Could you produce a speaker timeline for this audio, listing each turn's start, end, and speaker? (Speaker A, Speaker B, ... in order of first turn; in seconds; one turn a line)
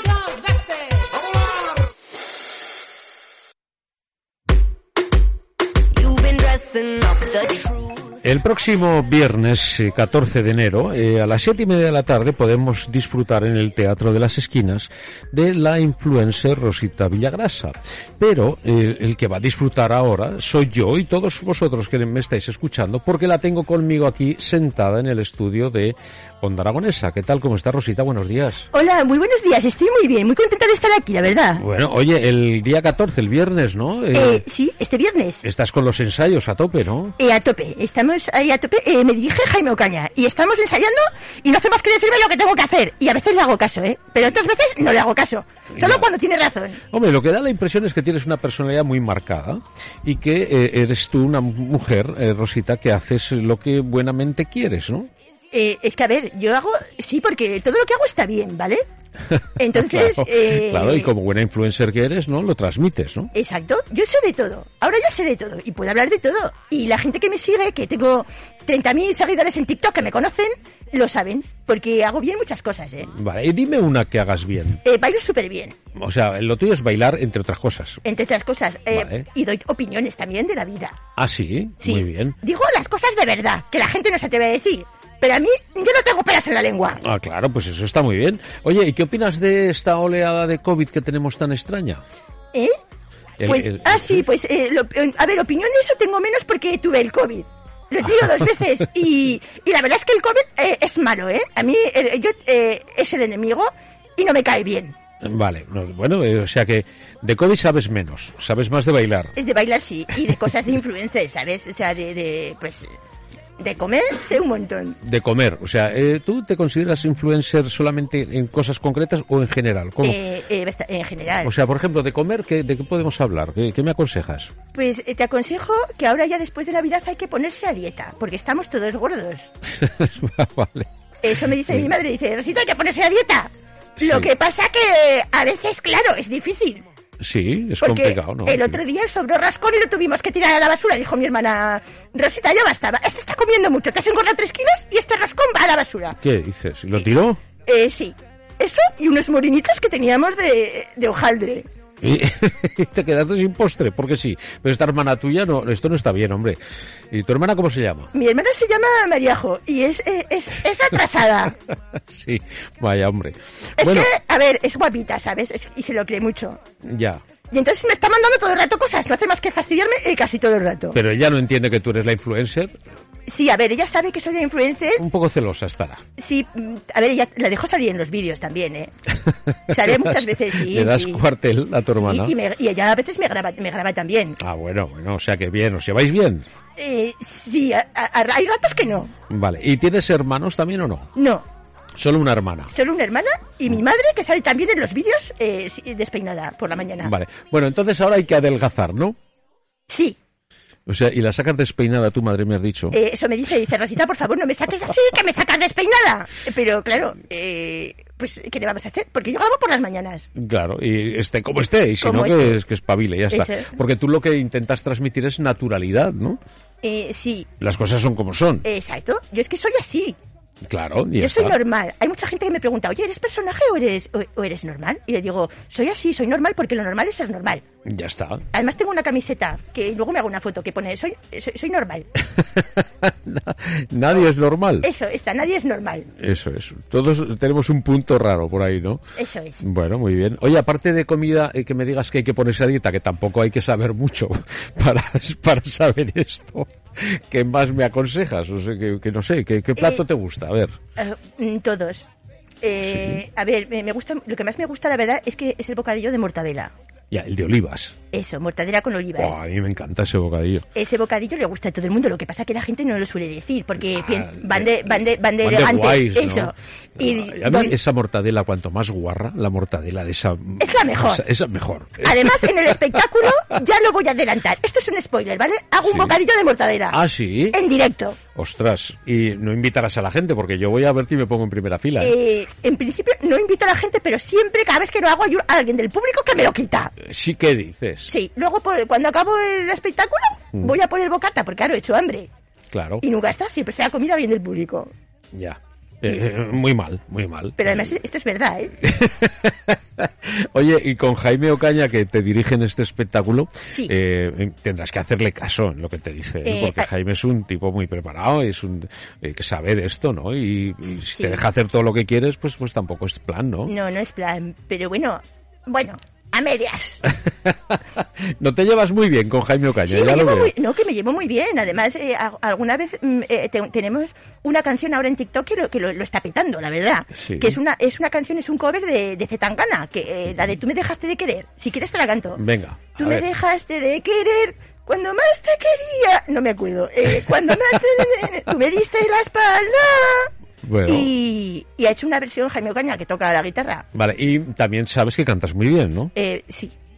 Speaker A: 8.2-28.7
Speaker B: 28.7-31.6
Speaker A: 31.6-34.4
Speaker B: 34.1-35.4
Speaker A: 35.4-37.2
Speaker B: 37.2-46.8
Speaker A: 45.8-46.1
Speaker A: 46.9-55.1
Speaker B: 55.5-58.8
Speaker A: 59.4-63.3
Speaker B: 59.6-61.1
Speaker B: 63.3-73.1
Speaker A: 73.1-74.8
Speaker B: 74.8-75.8
Speaker A: 76.0-78.0
Speaker B: 78.0-81.0
Speaker A: 78.9-79.3
Speaker A: 81.2-82.4
Speaker B: 81.8-87.0
Speaker A: 87.0-92.0
Speaker A: 93.4-94.2
Speaker B: 93.5-105.0
Speaker A: 105.2-109.3
Speaker B: 109.4-112.9
Speaker B: 113.6-115.0
Speaker A: 115.0-120.2
Speaker B: 120.0-121.5
Speaker A: 121.4-124.5
Speaker B: 124.7-129.5
Speaker A: 129.8-130.9
Speaker B: 131.2-136.9
Speaker A: 134.0-134.3
Speaker A: 137.2-138.8
Speaker B: 137.8-146.2
Speaker A: 146.2-147.4
Speaker B: 147.7-151.7
Speaker A: 152.0-156.6
Speaker A: 157.1-158.1
Speaker B: 158.1-161.6
Speaker A: 161.9-164.1
Speaker B: 163.8-166.6
Speaker A: 166.8-167.2
Speaker B: 167.5-171.0
Speaker A: 170.9-172.7
Speaker B: 173.3-175.1
Speaker A: 175.0-176.0
Speaker B: 176.2-178.9
Speaker B: 179.7-181.2
Speaker A: 179.7-182.4
Speaker B: 182.0-184.4
Speaker A: 184.4-186.4
Speaker B: 186.8-189.1
Speaker A: 189.3-191.1
Speaker B: 191.2-191.4
Speaker A: 192.0-192.7
Speaker B: 192.7-197.1
Speaker A: 197.0-199.2
Speaker B: 199.9-200.2
Speaker A: 200.9-203.0
Speaker B: 202.9-210.3
Speaker A: 210.3-216.4
Speaker B: 212.0-212.6
Speaker B: 213.3-213.7
Speaker B: 216.8-217.5
Speaker A: 217.6-218.7
Speaker B: 218.6-220.2
Speaker A: 220.6-221.6
Speaker B: 221.2-227.6
Speaker A: 227.9-228.4
Speaker B: 228.5-232.1
Speaker A: 232.4-234.9
Speaker B: 234.8-236.1
Speaker A: 236.2-239.0
Speaker B: 239.2-239.6
Speaker A: 239.6-250.8
Speaker B: 249.8-250.0
Speaker B: 251.0-252.1
Speaker B: 252.6-256.7
Speaker A: 252.8-253.2
Speaker A: 257.1-258.0
Speaker B: 258.1-259.4
Speaker A: 259.2-260.6
Speaker B: 260.8-267.8
Speaker A: 263.8-273.0
Speaker B: 270.6-271.2
Speaker B: 272.0-278.2
Speaker A: 275.8-276.2
Speaker A: 276.9-277.6
Speaker A: 278.4-282.2
Speaker B: 282.0-286.9
Speaker A: 287.0-288.1
Speaker B: 288.1-292.3
Speaker A: 292.7-293.1
Speaker B: 293.0-294.9
Speaker A: 295.3-297.9
Speaker B: 297.6-298.8
Speaker A: 298.8-313.7
Speaker B: 306.4-306.9
Speaker B: 311.1-311.4
Speaker B: 313.7-317.0
Speaker A: 317.4-320.5
Speaker B: 319.9-332.4
Speaker A: 327.2-327.6
Speaker A: 332.4-333.3
Speaker B: 333.0-340.3
Speaker A: 340.6-341.1
Speaker B: 340.9-343.9
Speaker A: 343.9-346.1
Speaker B: 346.1-346.7